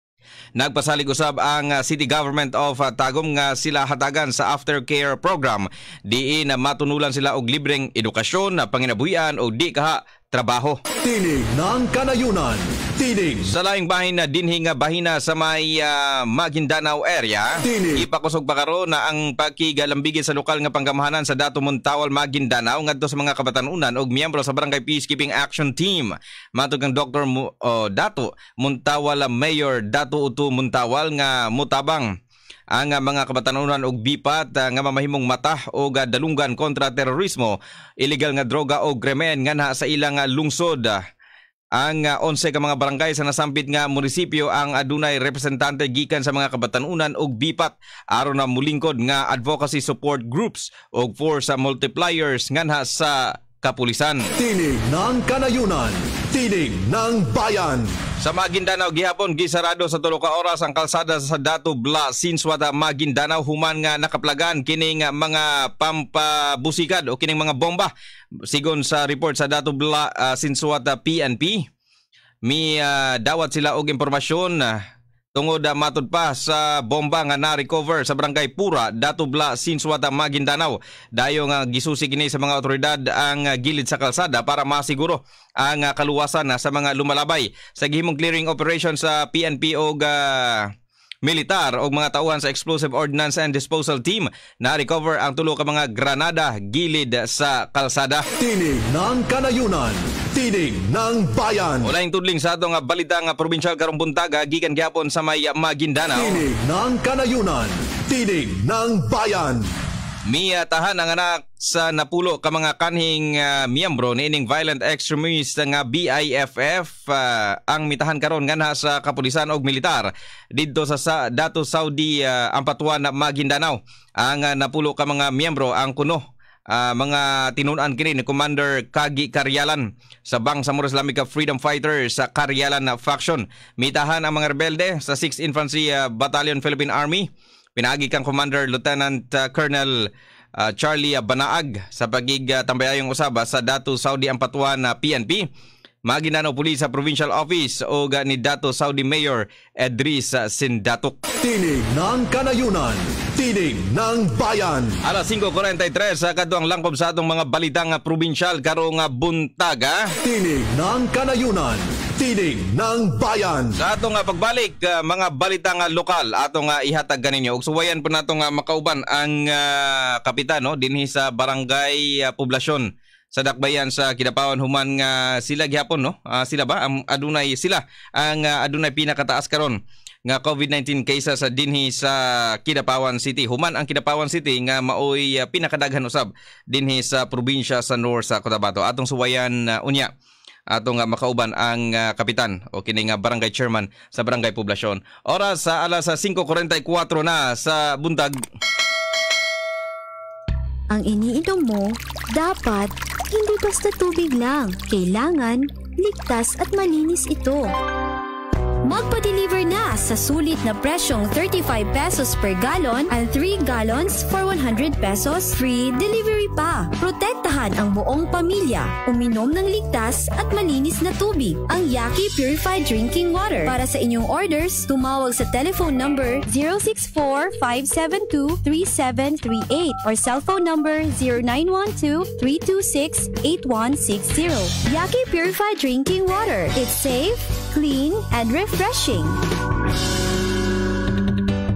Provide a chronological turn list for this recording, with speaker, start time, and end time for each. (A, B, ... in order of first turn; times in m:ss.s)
0:00.6-0:10.8 A
0:11.0-0:13.4 B
0:13.5-0:32.0 A
0:17.6-0:18.0 B
0:32.7-0:41.0 A
0:41.8-0:54.3 A
0:54.4-0:57.9 B
0:58.2-1:07.9 A
1:08.5-1:11.6 A
1:12.4-1:14.8 A
1:15.3-1:30.7 A
1:31.2-1:38.2 A
1:38.4-1:41.9 B
1:41.8-1:46.4 A
1:46.1-1:49.6 B
1:50.3-2:06.2 A
2:06.7-2:19.9 A
2:20.6-2:25.4 A
2:26.1-2:31.2 A
2:31.4-2:34.9 B
2:35.0-2:40.1 A
2:40.2-2:43.7 B
2:43.8-3:10.1 A
3:10.7-3:18.4 A
3:20.9-3:27.7 C
3:28.8-3:59.4 C